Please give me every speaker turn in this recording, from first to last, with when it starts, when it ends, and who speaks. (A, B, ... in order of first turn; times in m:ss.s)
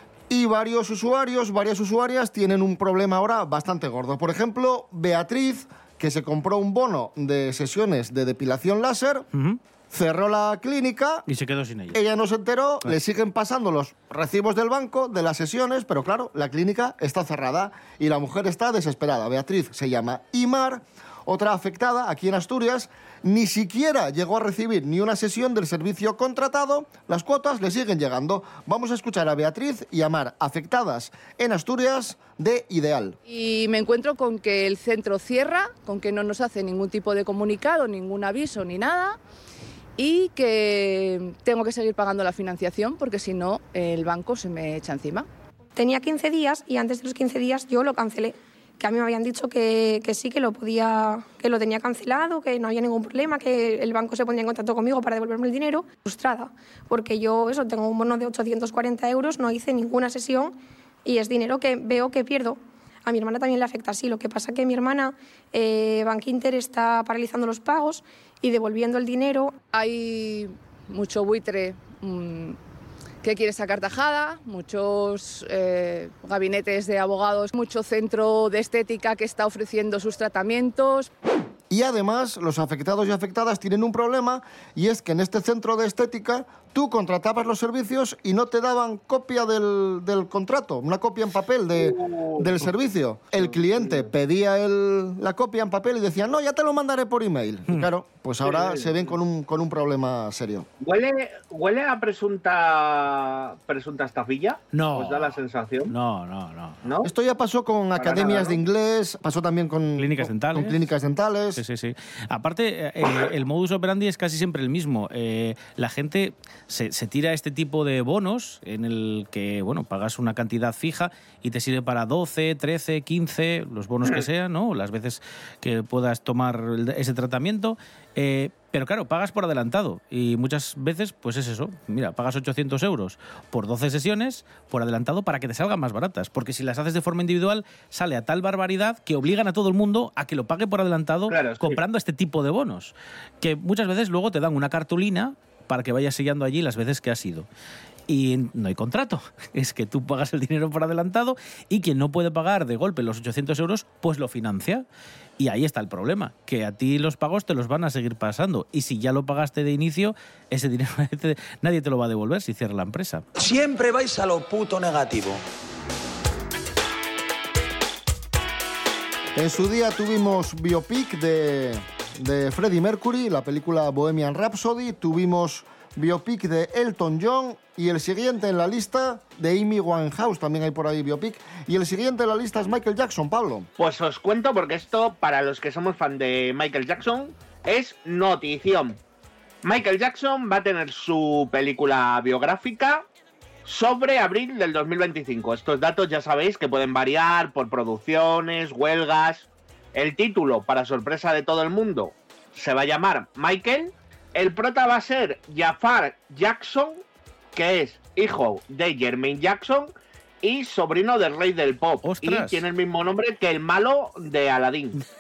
0:00.3-0:09.3 A
0:09.3-0:09.6 B
0:09.9-0:11.2 A
0:11.3-0:12.0 B
0:11.9-0:33.2 A
0:33.3-0:39.2 C
0:40.0-0:45.3 C
0:45.8-1:09.5 D
1:09.7-1:12.6 C
1:13.2-1:21.1 C
1:21.7-1:40.7 A
1:31.7-1:32.5 E
1:33.4-1:34.1 E
1:38.4-1:39.2 E
1:40.8-1:45.9 E
1:44.7-1:45.4 B
1:45.9-1:46.8 B
1:46.8-1:47.1 E
1:47.0-1:51.6 A
1:48.0-1:48.6 E
1:50.0-1:50.8 B
1:51.6-2:27.5 B
2:21.3-2:21.8 E
2:28.1-2:34.8 B
2:35.4-2:43.2 B
2:43.4-2:45.4 F
2:49.4-3:03.7 A
3:03.8-3:09.0 E
3:09.6-3:13.0 E
3:13.7-3:27.0 E
3:27.5-3:29.9 E
3:30.4-3:34.9 E
3:32.0-3:32.6 B